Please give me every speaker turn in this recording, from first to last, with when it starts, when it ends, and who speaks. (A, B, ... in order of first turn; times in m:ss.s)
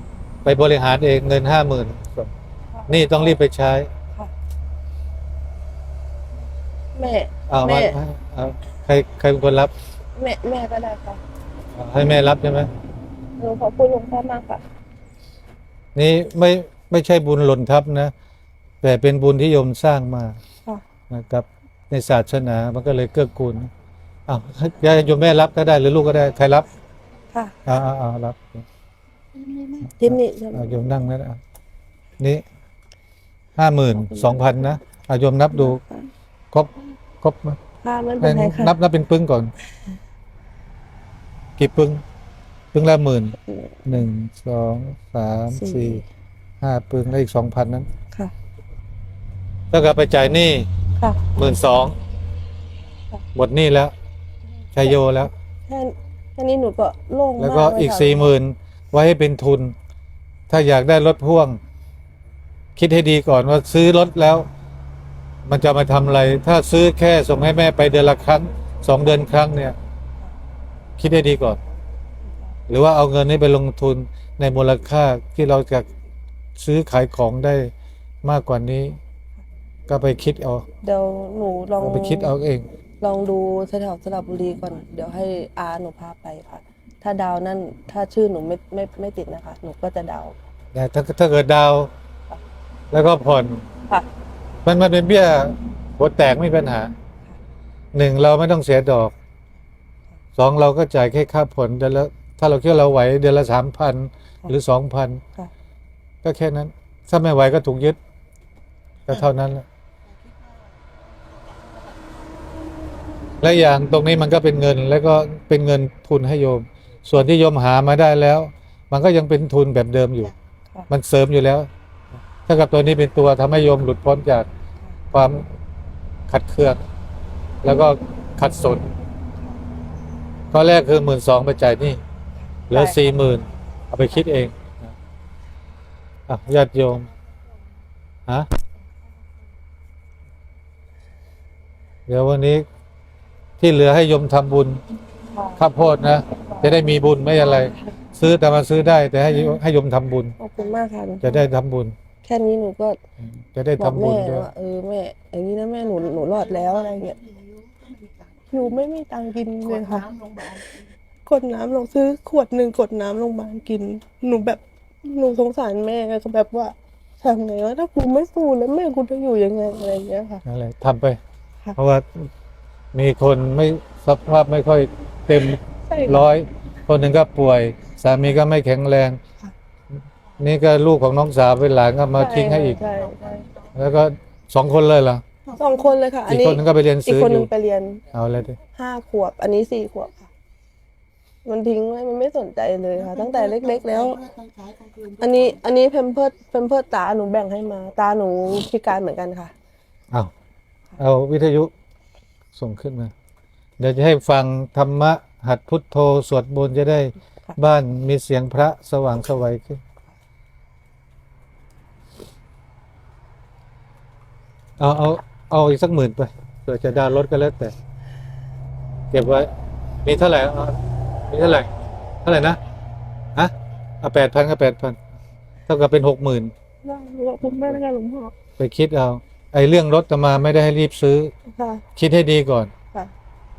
0:00.4-0:02.3 A
0:02.7-0:03.4 B
0:02.9-0:03.9 A
0:07.0-0:08.0 B
0:07.5-0:09.7 A
0:10.2-0:11.2 B
0:11.7-0:12.7 A
0:13.4-0:14.6 B
0:15.9-0:18.1 A
0:18.8-0:20.4 A
0:21.1-0:23.7 A
0:24.3-0:26.7 A
0:27.6-0:28.6 A
0:29.3-0:29.9 C
0:30.0-0:30.7 B
0:30.0-0:31.4 A
0:33.6-0:35.8 A
0:34.0-0:34.8 B
0:35.5-0:36.1 B
0:37.2-0:37.6 A
0:37.8-0:38.7 B
0:38.2-0:39.5 A
0:41.6-0:42.0 A
0:42.7-0:46.0 A
0:45.5-0:46.0 B
0:46.6-0:47.9 A
0:49.7-0:50.7 A
0:51.3-0:52.0 A
0:53.3-0:53.9 A
0:54.7-0:55.3 A
0:55.7-0:58.3 B
0:57.4-0:59.7 A
1:00.5-1:01.6 A
1:02.8-1:04.5 A
1:05.4-1:09.8 A
1:11.0-1:11.6 A
1:12.7-1:15.9 A
1:16.6-1:17.7 A
1:18.2-1:19.0 A
1:19.9-1:20.6 A
1:20.8-1:22.3 B
1:21.8-1:22.7 A
1:23.0-1:30.3 B
1:30.7-1:31.9 A
1:32.9-1:33.7 A
1:34.6-1:36.9 A
1:37.9-1:39.1 A
1:40.4-1:45.2 A
1:46.2-1:48.0 A
1:49.1-1:49.6 A
1:50.0-1:53.4 C
1:53.4-2:00.3 A
2:00.9-2:01.7 A
2:02.5-2:04.5 A
2:05.1-2:05.5 A
2:06.3-2:06.8 A
2:07.6-2:08.9 A
2:09.5-2:09.8 C
2:10.5-2:12.0 A
2:12.7-2:13.0 B
2:12.7-2:14.9 A
2:16.3-2:17.1 A
2:16.8-2:17.9 C
2:18.7-2:19.6 C
2:22.1-2:22.6 A
2:23.6-2:24.8 A
2:25.3-2:25.6 B
2:25.6-2:30.4 A
2:26.5-2:26.8 B
2:30.4-2:31.4 B
2:31.2-2:32.0 A
2:32.2-2:33.0 B
2:33.2-2:34.5 A
2:33.8-2:37.2 B
2:35.8-2:38.8 C
2:38.5-2:40.0 B
2:39.6-2:40.9 C
2:41.2-2:50.4 B
2:50.4-2:51.2 A
2:51.8-2:52.3 A
2:52.9-2:59.2 A
2:55.9-2:56.3 B
3:00.4-3:02.8 A
3:02.1-3:03.4 B
3:02.7-3:03.8 C
3:03.7-3:05.2 A
3:05.4-3:06.0 C
3:05.6-3:08.0 B
3:06.3-3:07.5 A
3:08.1-3:08.6 A
3:08.8-3:10.2 B
3:11.4-3:14.2 B
3:13.0-3:15.6 C
3:15.2-3:19.5 B
3:21.0-3:21.7 A
3:22.5-3:23.1 A
3:23.8-3:29.8 A
3:34.8-3:37.7 A
3:39.1-3:39.5 A
3:40.0-3:40.8 A
3:41.3-3:41.7 A
3:42.2-3:42.6 A
3:43.3-3:45.0 A
3:45.7-3:46.5 A
3:46.8-3:48.3 B
3:48.6-3:51.3 A
3:51.5-3:51.8 B
3:52.0-3:52.7 A